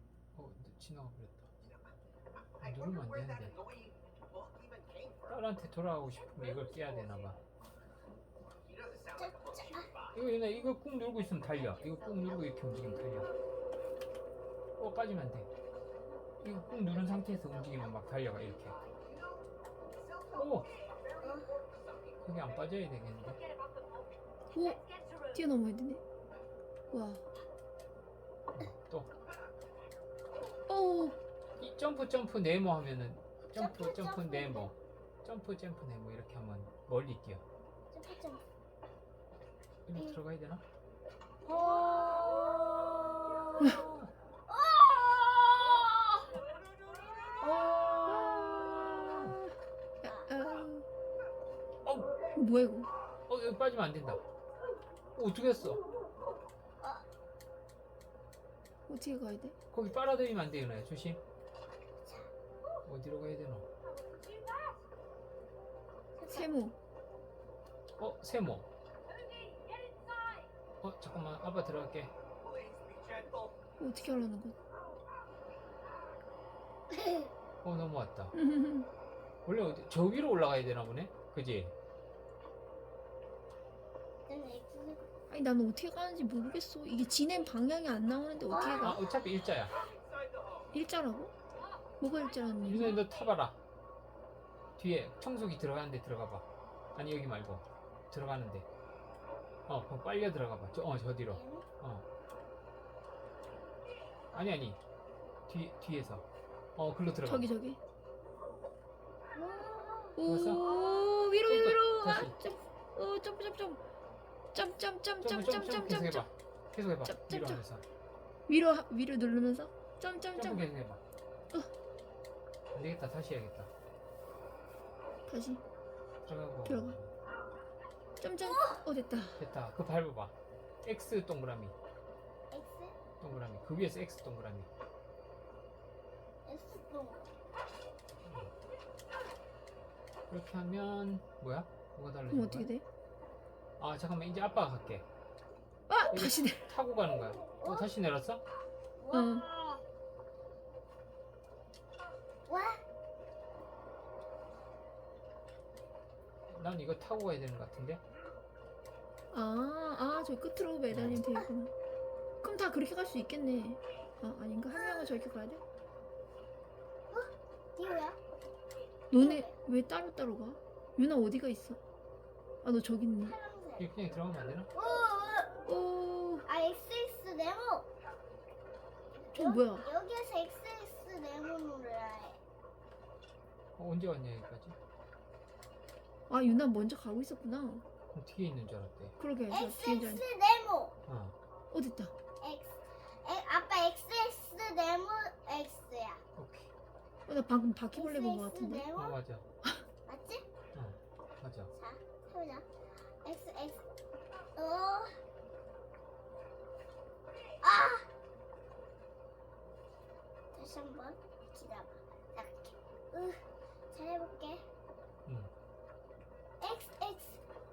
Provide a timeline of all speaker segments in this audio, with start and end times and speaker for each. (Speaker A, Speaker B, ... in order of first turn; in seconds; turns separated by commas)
Speaker A: 0.3-1.5, Speaker A: 2.6-3.6, Speaker B: 3.7-4.0, Speaker B: 4.5-5.1, Speaker A: 5.3-7.4, Speaker C: 9.2-9.9, Speaker A: 10.1-13.3, Speaker A: 14.8-15.5, Speaker A: 16.4-18.8, Speaker B: 20.1-21.1, Speaker A: 20.4-20.7, Speaker C: 21.2-21.6, Speaker B: 21.7-22.1, Speaker A: 22.2-23.4, Speaker D: 23.4-25.4, Speaker E: 24.5-24.8, Speaker E: 25.3-26.0, Speaker E: 26.9-27.2, Speaker A: 28.6-29.1, Speaker E: 30.7-31.2, Speaker A: 31.6-37.4, Speaker C: 33.5-34.7, Speaker C: 37.9-38.4, Speaker A: 39.9-40.6, Speaker C: 41.5-42.9, Speaker A: 41.5-44.1, Speaker C: 44.5-46.0, Speaker E: 47.4-49.5, Speaker A: 47.5-49.4, Speaker E: 50.0-50.9, Speaker C: 50.0-50.4, Speaker A: 51.9-52.1, Speaker E: 52.3-52.9, Speaker A: 53.3-54.2, Speaker A: 55.2-55.8, Speaker C: 56.8-57.1, Speaker E: 58.9-59.6, Speaker A: 59.7-61.2, Speaker C: 62.0-62.3, Speaker A: 62.9-63.7, Speaker D: 63.9-64.8, Speaker C: 66.2-66.5, Speaker E: 66.3-66.8, Speaker A: 68.0-68.7, Speaker D: 69.1-70.5, Speaker A: 70.8-72.1, Speaker B: 72.5-73.5, Speaker E: 73.8-74.6, Speaker C: 76.9-77.3, Speaker A: 77.6-78.3, Speaker E: 78.3-78.9, Speaker A: 79.5-81.7, Speaker C: 84.3-85.0, Speaker E: 85.3-89.0, Speaker C: 88.5-89.0, Speaker A: 88.8-89.8, Speaker B: 90.2-90.6, Speaker E: 90.7-91.3, Speaker D: 91.5-91.8, Speaker E: 92.0-93.0, Speaker A: 92.7-93.6, Speaker A: 94.8-98.7, Speaker A: 99.7-102.1, Speaker C: 101.3-101.7, Speaker A: 104.3-104.8, Speaker A: 105.5-107.5, Speaker E: 107.3-107.8, Speaker C: 109.3-111.1, Speaker E: 110.2-113.8, Speaker A: 110.2-110.6, Speaker A: 111.5-112.3, Speaker E: 114.5-116.3, Speaker A: 115.2-117.8, Speaker E: 117.0-117.6, Speaker E: 118.5-120.7, Speaker A: 120.3-121.0, Speaker A: 122.7-123.7, Speaker E: 125.3-125.6, Speaker A: 126.3-127.1, Speaker E: 126.7-127.0, Speaker E: 128.2-129.4, Speaker C: 128.4-128.8, Speaker A: 129.4-131.8, Speaker C: 132.5-133.0, Speaker A: 133.2-134.7, Speaker C: 136.4-137.4, Speaker A: 138.2-138.5, Speaker A: 140.3-142.7, Speaker E: 142.3-142.8, Speaker A: 143.8-145.1, Speaker E: 145.9-146.7, Speaker A: 146.1-148.4, Speaker C: 147.5-147.9, Speaker C: 149.0-149.5, Speaker E: 149.1-149.5, Speaker C: 152.5-152.8, Speaker A: 156.5-158.0, Speaker E: 159.3-161.7, Speaker A: 160.9-161.2, Speaker E: 162.4-165.6, Speaker C: 164.7-165.2, Speaker C: 167.1-168.2, Speaker E: 169.1-171.8, Speaker C: 169.1-169.6, Speaker E: 172.6-173.3, Speaker C: 173.2-173.9, Speaker A: 173.8-174.7, Speaker C: 174.7-175.6, Speaker E: 175.7-176.4, Speaker C: 176.4-177.9, Speaker C: 179.1-182.4, Speaker E: 179.4-179.9, Speaker A: 183.8-184.8, Speaker E: 186.3-187.8, Speaker A: 188.1-189.2, Speaker E: 189.2-190.2, Speaker C: 189.5-191.0, Speaker A: 191.1-191.3, Speaker E: 191.7-192.1, Speaker C: 192.4-196.2, Speaker A: 196.4-196.7, Speaker E: 197.3-198.9, Speaker C: 197.9-199.2, Speaker A: 199.0-199.5, Speaker C: 200.1-200.4, Speaker A: 200.7-201.7, Speaker C: 201.7-203.8, Speaker C: 204.6-205.2, Speaker C: 207.6-208.1, Speaker C: 210.5-213.4, Speaker C: 213.9-214.6, Speaker C: 216.6-217.4